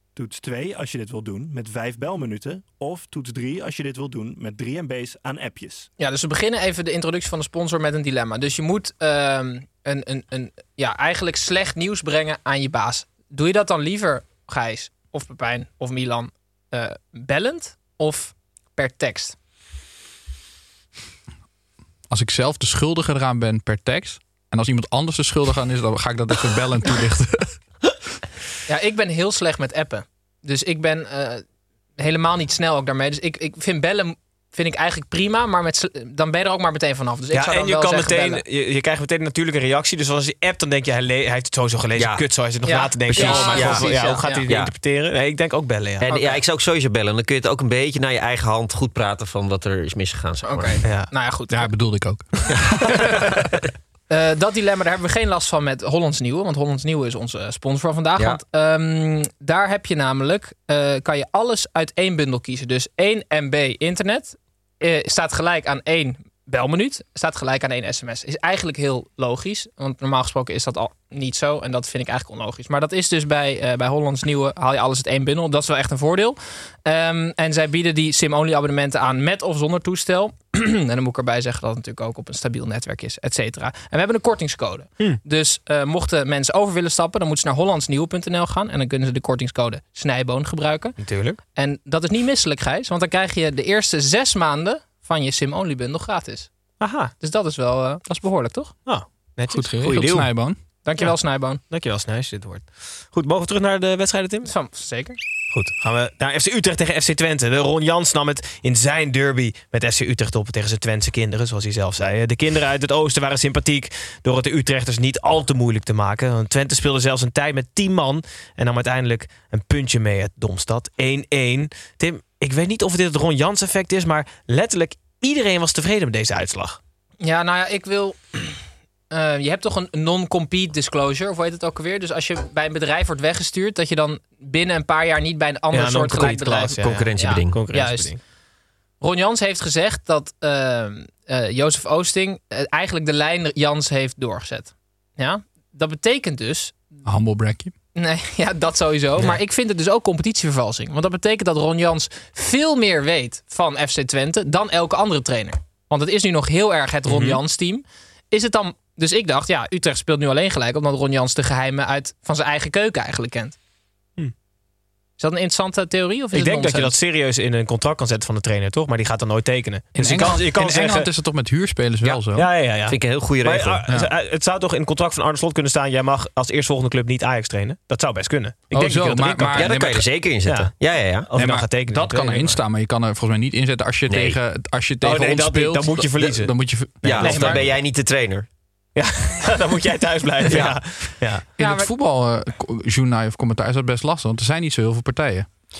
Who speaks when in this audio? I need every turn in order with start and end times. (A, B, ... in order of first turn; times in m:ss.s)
0:00.2-0:05.8 A
0:06.0-0:19.4 B
0:22.1-0:27.6 C
0:28.7-0:31.4 B
0:32.0-0:38.4 B
0:37.3-0:46.1 D
0:42.0-0:42.2 E
0:42.7-0:44.5 B
0:43.1-0:44.7 E
0:46.0-0:50.8 E
0:50.4-0:51.7 B
0:50.8-0:51.1 D
0:51.5-0:52.9 C
0:54.1-1:31.0 B
1:31.0-1:31.4 D
1:31.6-1:36.5 B
1:36.8-1:37.1 D
1:37.2-1:38.7 B
1:38.9-1:40.2 D
1:39.5-1:40.6 C
1:40.0-1:40.3 E
1:40.8-1:41.6 B
1:41.7-1:44.5 D
1:44.4-1:45.2 B
1:45.5-2:06.8 D
2:07.2-2:18.1 B
2:15.7-2:18.2 D
2:16.8-2:17.6 E
2:19.0-2:26.8 B
2:27.0-2:27.7 C
2:28.0-2:43.6 B
2:37.1-2:37.4 D
2:45.2-2:46.9 B
2:46.3-2:51.1 D
2:50.0-2:52.5 C
2:52.0-2:59.8 D
2:52.9-2:53.8 E
2:58.7-3:00.1 C
2:59.5-3:01.3 E
3:00.4-3:00.7 D
3:01.3-3:02.6 D
3:01.4-3:07.5 C
3:04.1-3:04.4 E
3:05.0-3:06.5 D
3:07.0-3:08.5 E
3:07.1-3:07.6 D
3:07.2-3:07.6 B
3:09.0-3:11.4 D
3:11.6-3:15.5 C
3:11.6-3:11.9 B